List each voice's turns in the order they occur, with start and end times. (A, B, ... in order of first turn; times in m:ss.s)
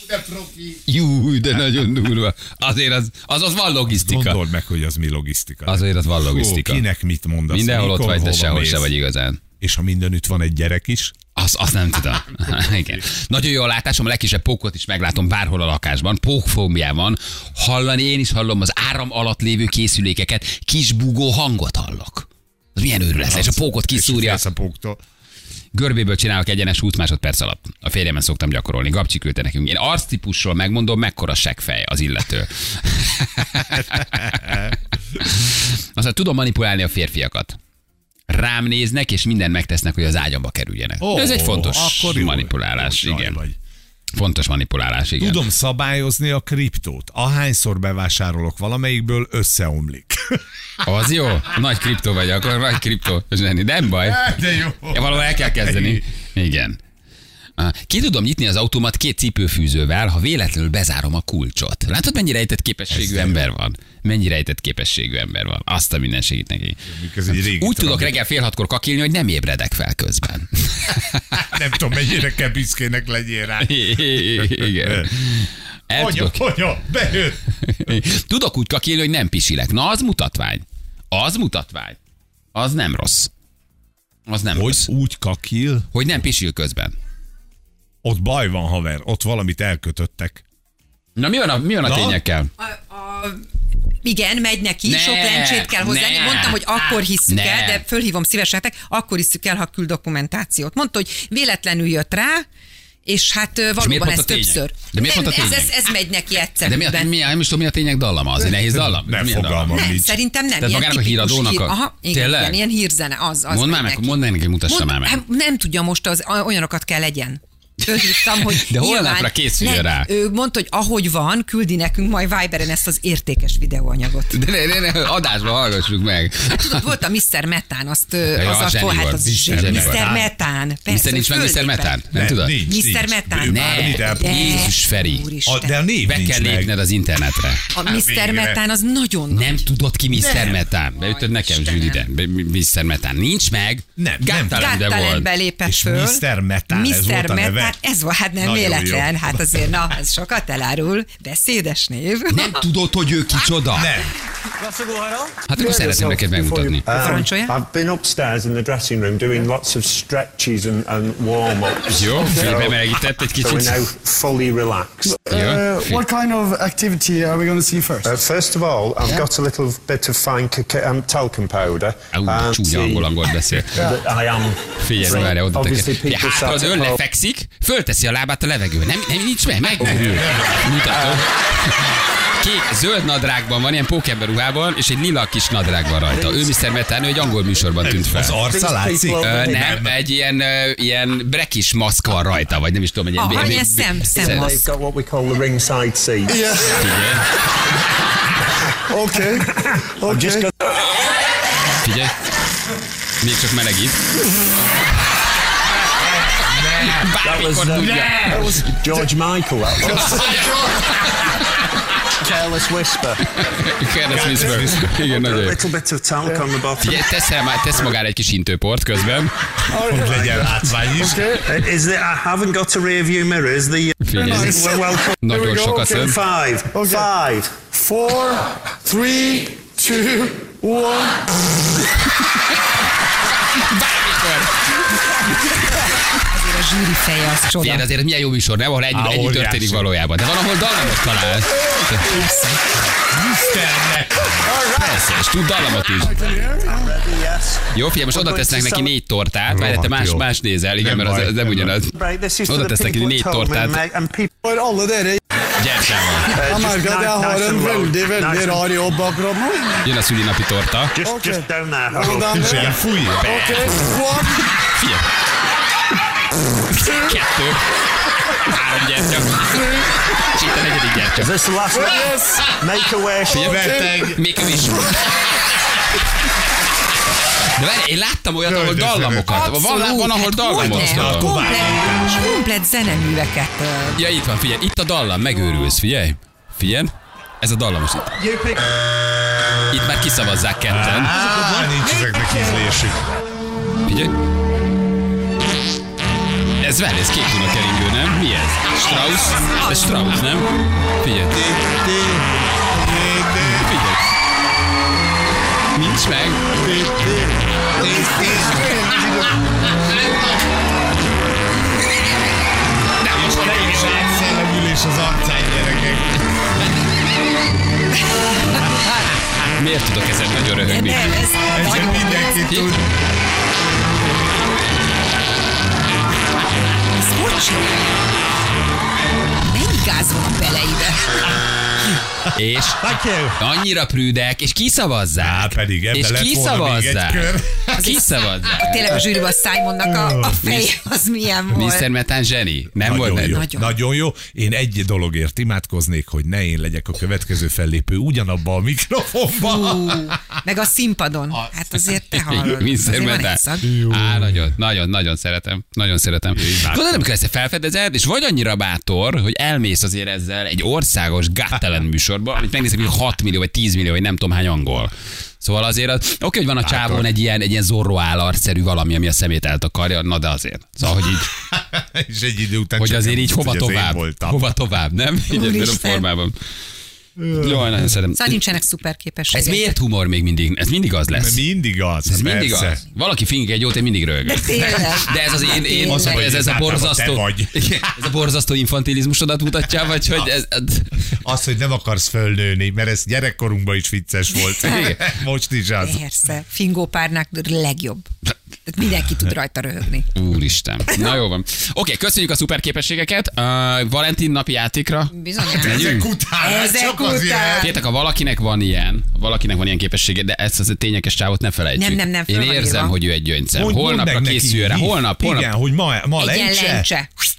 0:00.1-0:00.6 A
0:00.7-0:04.4 B
0:03.9-0:08.9 A
0:05.7-0:06.8 B
0:07.5-0:09.4 B
0:09.6-0:11.2 A
0:11.4-0:24.4 B
0:23.2-0:25.0 A
0:25.7-0:37.6 B
0:33.9-0:34.6 A
0:38.3-0:43.4 B
0:41.0-0:43.6 A
0:44.1-0:45.5 B
0:45.2-0:50.4 A
0:50.8-0:56.8 B
0:54.0-0:56.0 A
0:57.6-1:11.5 B
1:02.9-1:03.4 A
1:06.9-1:08.2 A
1:11.4-1:15.3 A
1:13.6-1:16.4 B
1:15.9-1:17.4 A
1:17.6-1:22.0 B
1:22.5-1:23.3 B
1:24.3-1:24.9 B
1:24.5-1:25.9 A
1:25.9-1:27.0 B
1:28.0-1:30.4 A
1:31.2-1:32.5 B
1:31.8-1:32.2 A
1:32.6-1:33.4 C
1:34.0-1:42.4 C
1:34.8-1:37.8 B
1:43.1-1:47.1 C
1:43.8-1:45.9 B
1:46.6-1:49.9 B
1:48.9-1:50.2 A
1:49.7-2:04.4 C
1:50.6-1:52.7 B
1:53.5-1:55.2 B
1:57.8-2:00.1 B
2:04.3-2:07.0 B
2:06.5-2:15.8 C
2:08.3-2:10.1 B
2:09.3-2:10.3 A
2:10.9-2:12.6 B
2:12.1-2:14.7 A
2:13.4-2:15.3 B
2:15.5-2:16.7 A
2:16.0-2:17.8 B
2:17.7-2:19.6 C
2:17.8-2:18.6 A
2:19.3-2:25.3 B
2:20.1-2:20.6 A
2:21.0-2:22.0 C
2:24.0-2:24.8 A
2:24.5-2:32.6 C
2:25.6-2:27.8 A
2:28.4-2:29.8 A
2:32.3-2:34.0 B
2:33.7-2:34.1 A
2:34.6-2:37.2 D
2:35.5-2:36.9 B
2:36.9-2:42.8 E
2:37.0-2:37.6 C
2:41.9-2:43.9 B
2:42.1-2:42.6 D
2:43.4-2:45.2 E
2:45.0-2:48.2 D
2:45.2-2:46.0 B
2:48.0-2:57.0 E
2:52.1-2:53.8 B
2:54.8-3:08.4 B
2:59.8-3:00.7 A
3:07.8-3:10.0 A
3:08.5-3:09.6 E
3:09.2-3:14.7 B
3:13.2-3:14.6 C
3:14.0-3:16.4 E
3:16.3-3:16.9 D
3:16.7-3:17.3 B
3:18.9-3:20.5 D
3:19.6-3:20.5 E
3:21.8-3:22.2 B
3:23.2-3:24.0 B
3:26.3-3:27.1 A
3:26.4-3:28.4 B
3:27.2-3:30.5 E
3:27.8-3:29.0 A
3:29.8-3:31.6 B
3:32.1-3:33.2 E
3:33.3-3:35.7 B
3:34.1-3:35.0 A
3:34.2-3:37.0 E
3:36.2-3:36.5 D
3:36.8-3:39.3 B
3:39.7-3:41.5 D
3:39.8-3:41.4 A
3:41.4-3:47.6 E
3:44.0-3:44.7 B
3:44.1-3:46.1 D
3:45.2-3:46.2 B
3:46.7-3:51.3 D
3:52.1-3:52.6 B
3:53.4-3:56.2 B
3:56.2-3:57.9 C
3:57.6-4:02.2 B
3:58.9-3:59.9 A
4:02.1-4:02.6 C
4:03.1-4:05.0 A
4:04.6-4:04.8 D
4:04.7-4:06.3 B
4:06.0-4:07.0 D
4:06.5-4:08.9 E
4:07.7-4:13.8 B
4:09.5-4:11.8 A
4:11.9-4:14.3 E
4:14.4-4:15.2 D
4:15.6-4:16.4 B
4:16.3-4:18.7 E
4:16.4-4:19.9 D
4:19.8-4:21.0 B
4:21.0-4:22.8 E
4:21.0-4:24.6 D
4:22.3-4:23.4 A
4:23.2-4:25.1 B
4:26.6-4:31.4 B
4:31.2-4:33.6 E
4:31.7-4:32.6 D
4:33.3-4:35.3 B
4:33.3-4:34.2 A
4:33.4-4:34.1 D
4:37.4-4:41.4 B
4:38.4-4:39.6 A
4:39.5-4:44.1 C
4:40.5-4:42.3 A
4:44.0-4:48.3 B
4:49.7-4:51.2 B
4:50.7-4:53.1 A
4:53.8-4:54.1 B
4:56.6-5:01.4 B
5:01.3-5:03.8 A
5:03.4-5:04.0 B
5:05.7-5:06.6 B
5:06.5-5:10.4 A
5:07.8-5:09.3 D
5:13.0-5:14.0 B
5:13.0-5:16.3 A
5:18.5-5:18.9 C
5:19.4-5:21.3 B
5:20.6-5:22.6 C
5:21.5-5:22.8 A
5:22.4-5:22.7 B
5:26.9-5:27.8 C
5:29.5-5:31.2 C
5:32.3-5:38.9 B
5:32.7-5:33.4 A
5:35.2-5:37.8 A
5:37.8-5:41.9 C
5:39.8-5:40.5 A
5:40.4-5:40.7 B
5:41.5-5:43.5 B
5:42.8-5:50.4 A
5:43.3-5:43.7 C
5:49.4-5:53.8 C
5:52.1-6:11.4 B
5:53.7-5:54.5 A
5:56.3-5:57.1 A
6:06.6-6:07.1 A
6:11.2-6:14.5 A
6:12.8-6:16.4 B
6:15.3-6:16.1 C
6:17.2-6:17.6 A
6:17.3-6:18.5 B
6:18.1-6:19.7 C
6:19.3-6:21.4 B
6:21.1-6:22.8 A
6:22.0-6:31.1 B
6:24.2-6:26.2 C
6:25.8-6:28.1 A
6:31.1-6:36.0 A
6:34.4-6:35.1 C
6:35.8-6:38.1 C
6:38.7-6:40.1 C
6:40.1-6:46.1 B
6:45.2-6:47.8 C
6:45.5-6:47.8 A
6:47.6-6:55.5 B
6:51.8-6:53.0 C
6:53.5-6:56.9 A
6:56.2-6:57.1 C